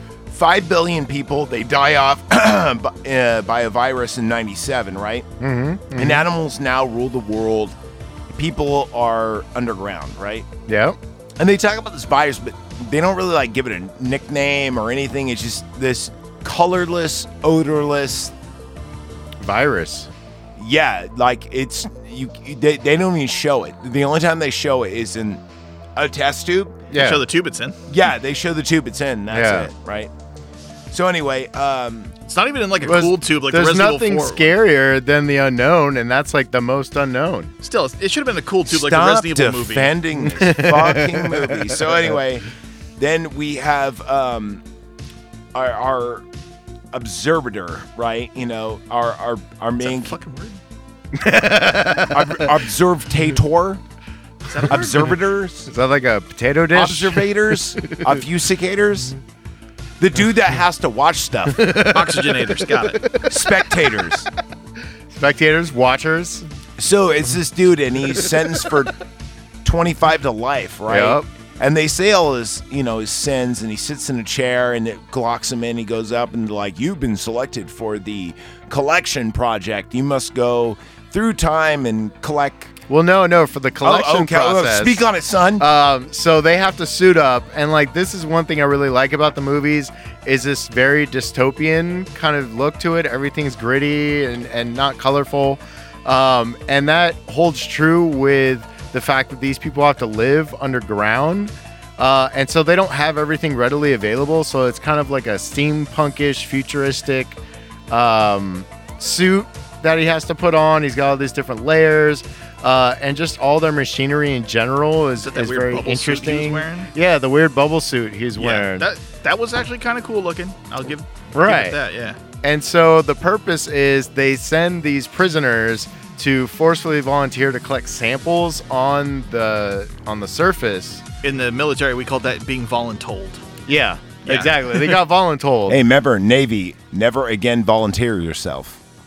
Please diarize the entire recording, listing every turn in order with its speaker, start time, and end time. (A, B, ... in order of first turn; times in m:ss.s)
0:00.3-0:05.3 A
0:05.4-0:06.2 B
0:06.0-0:07.8 A
0:08.3-0:10.5 A
0:10.7-0:11.0 B
0:11.4-0:18.3 A
0:19.4-0:20.1 B
0:20.6-0:25.4 A
0:26.0-0:26.8 A
0:26.9-0:27.2 B
0:26.9-0:27.8 C
0:27.9-0:30.1 A
0:29.3-0:29.7 B
0:30.9-0:32.2 A
0:32.3-0:34.5 C
0:32.8-0:37.5 B
0:37.6-0:40.0 C
0:38.7-0:42.5 A
0:40.3-0:41.9 B
0:43.0-0:44.6 A
0:45.5-0:46.3 A
0:46.9-0:50.2 A
0:49.8-0:50.6 C
0:51.2-0:52.5 B
0:52.1-0:53.8 A
0:54.5-0:55.2 C
0:54.7-0:55.7 A
0:55.7-0:58.0 B
0:56.7-0:59.2 A
1:00.0-1:01.8 A
1:01.6-1:03.2 B
1:01.8-1:03.1 C
1:03.2-1:04.3 A
1:05.2-1:06.4 B
1:06.8-1:09.0 A
1:09.6-1:22.7 A
1:10.9-1:11.3 B
1:22.9-1:25.0 B
1:23.8-1:25.7 A
1:25.6-1:58.9 B
1:55.2-1:56.9 C
1:58.4-2:02.2 C
2:01.3-2:01.8 B
2:02.4-2:11.0 B
2:11.2-2:13.4 C
2:13.7-2:15.8 B
2:14.2-2:15.0 C
2:15.7-2:18.8 A